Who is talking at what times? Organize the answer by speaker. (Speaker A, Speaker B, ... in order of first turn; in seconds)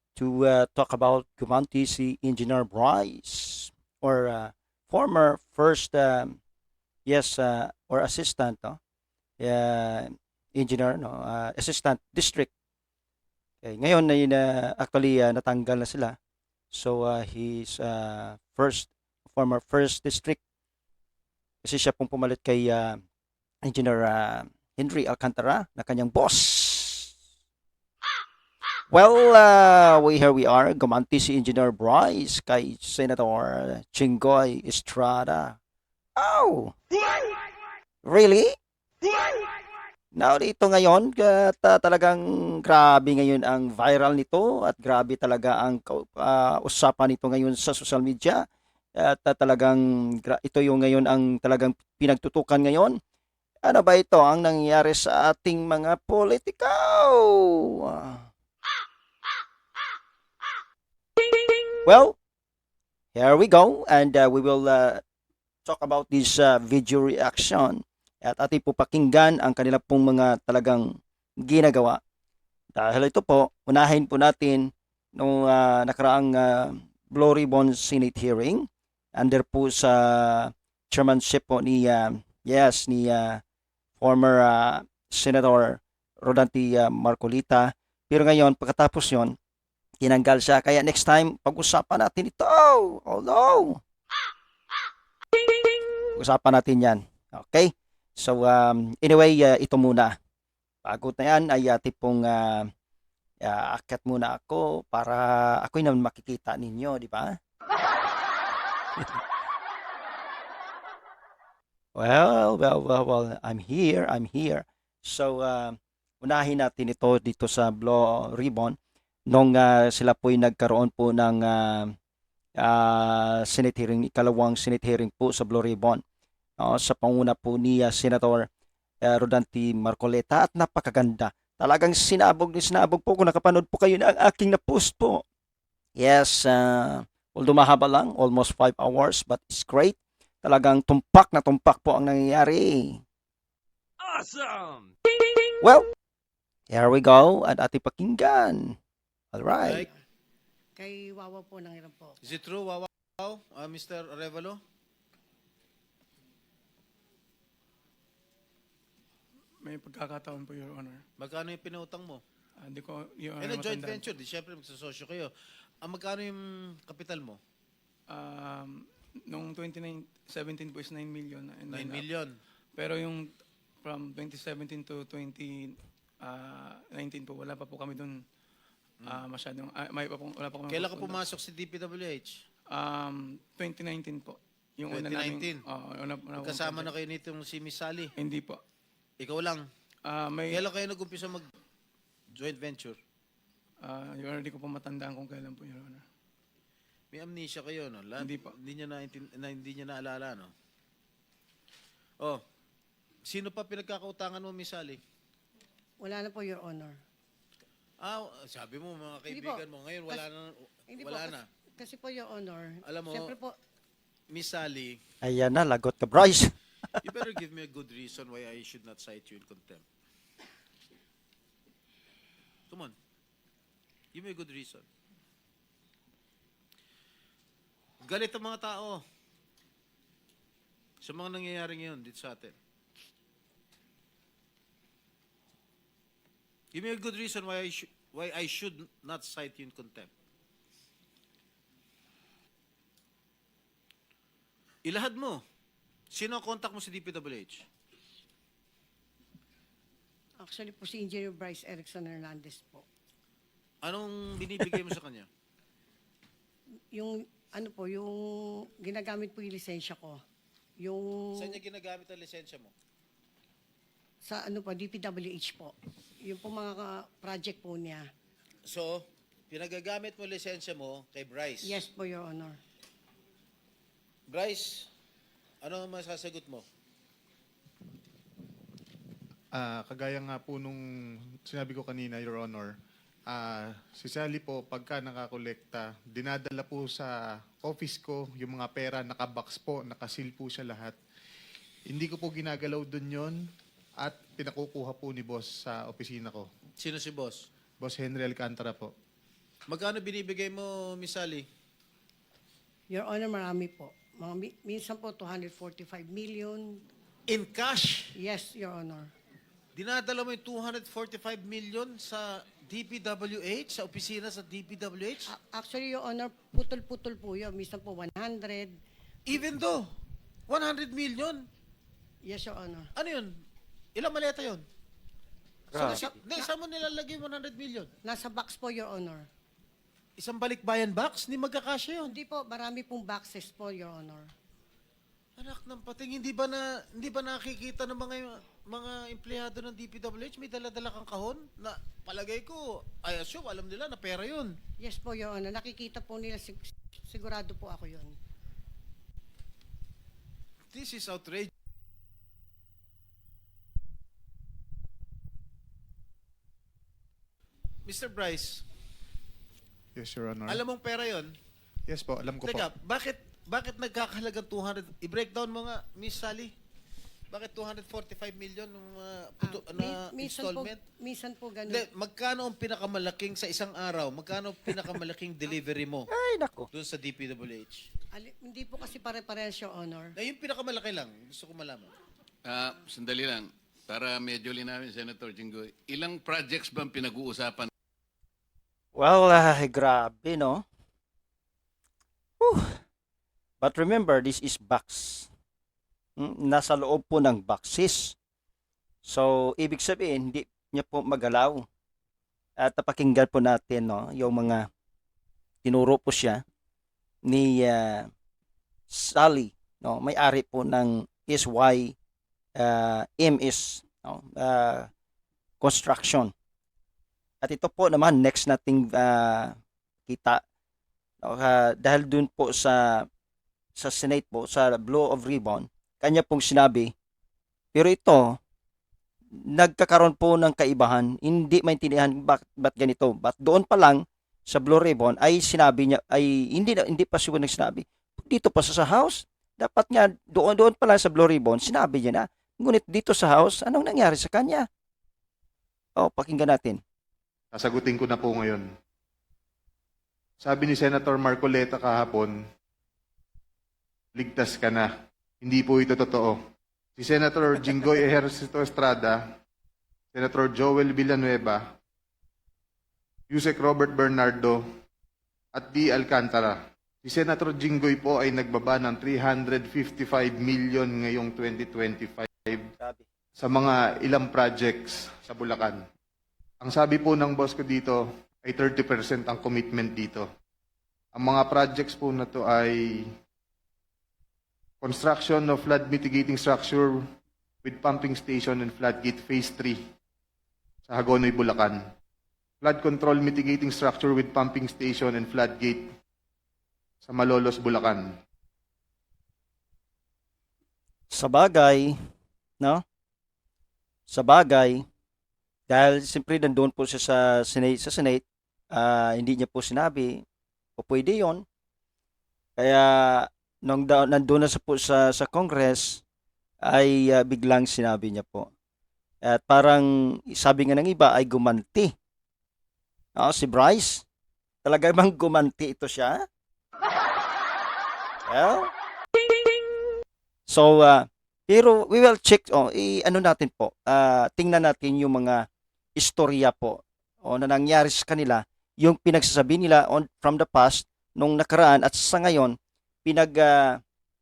Speaker A: 0.2-6.4, 7.0-8.8, 9.4-12.5, 13.6-16.1, 16.7-20.4, 21.6-23.0, 23.6-27.1, 28.9-35.6, 36.2-36.8, 38.0-38.5, 40.1-48.4, 49.0-53.0, 53.6-58.3, 61.8-62.2, 63.1-65.0, 65.7-72.0, 72.7-83.4, 84.0-89.3, 90.0-93.8, 96.2-100.2, 100.8-102.7, 103.4-107.4, 111.9-118.8, 119.3-121.9, 122.6-126.0, 126.6-128.5, 129.0-135.2, 136.0-143.0, 145.6-145.9, 146.7-148.8, 149.3-149.8, 215.2-217.0, 325.7-326.1, 376.1-376.7, 388.9-390.6, 392.4-392.8, 393.6-395.3, 396.2-398.1, 399.1-401.6, 402.6-404.7, 405.6-406.4, 407.3-408.1, 408.9-411.9, 412.6-414.9, 415.6-416.3, 417.4-419.6, 420.1-420.4, 421.2-423.1, 423.8-426.9, 427.7-428.4, 429.4-444.7, 446.0-446.8, 472.8-473.0, 501.1-502.0, 504.1-504.9, 505.7-510.2, 510.8-511.4, 512.6-516.0, 516.6-518.5, 519.2-521.9, 523.1-524.0, 524.6-526.2, 528.3-528.7, 530.5-535.5, 536.0-543.8
Speaker B: 144.1-144.8, 382.4-387.7
Speaker C: 149.6-149.9, 152.2-154.6, 161.2-162.2, 163.4-165.3, 165.8-167.4, 171.7-172.3, 180.7-182.4, 184.9-185.6, 186.3-188.1, 189.2-189.7, 190.5-191.5, 192.3-193.0, 197.1-200.5, 203.2-205.0, 208.0-211.4, 212.8-213.3, 214.3-215.0, 217.0-219.8, 222.7-222.9, 224.1-224.8, 228.0-229.0, 231.0-232.5, 236.7-240.1, 244.9-245.4, 246.1-247.6, 253.8-255.3, 261.4-262.7, 268.6-271.9, 274.3-274.9, 275.6-276.6, 296.8-297.4, 299.7-301.4, 307.3-308.1, 309.8-315.3, 319.3-319.8, 320.5-321.4, 322.9-323.3, 323.9-324.6, 325.8-327.9, 330.2-332.1, 335.4-344.5, 350.7-351.5, 357.9-358.6, 360.5-361.3, 362.4-366.5, 367.3-370.8, 371.7-376.1, 376.7-377.9, 380.1-381.9
Speaker D: 150.8-152.2, 206.0-207.0, 209.3-210.2, 210.9-213.5, 250.4-252.8, 256.9-260.2, 260.8-261.6, 264.2-268.0, 271.6-272.6, 302.9-306.8, 308.1-309.1, 315.3-318.7, 322.2-322.9, 325.7-326.5, 328.0-329.2, 332.0-334.3, 344.8-348.1, 369.4-371.8, 378.1-380.1
Speaker E: 159.6-161.0, 162.6-164.1, 168.1-172.0, 172.8-173.3, 173.8-178.2, 179.0-181.2, 182.7-186.9, 188.2-188.6, 190.1-190.6, 193.8-196.0, 198.2-198.5
Speaker F: 279.5-280.8, 281.5-282.7, 283.3-290.9, 291.9-293.5, 294.0-296.5, 297.8-298.9, 359.9-360.6, 361.9-362.6, 447.5-448.6, 450.4-452.4, 454.1-454.9, 455.4-456.4, 457.0-459.2, 460.1-461.6, 463.3-464.6, 465.5-472.7, 473.4-475.8, 476.6-480.3, 481.1-483.1, 484.8-487.0, 487.6-489.8, 490.9-491.8, 492.6-495.8, 497.0-498.1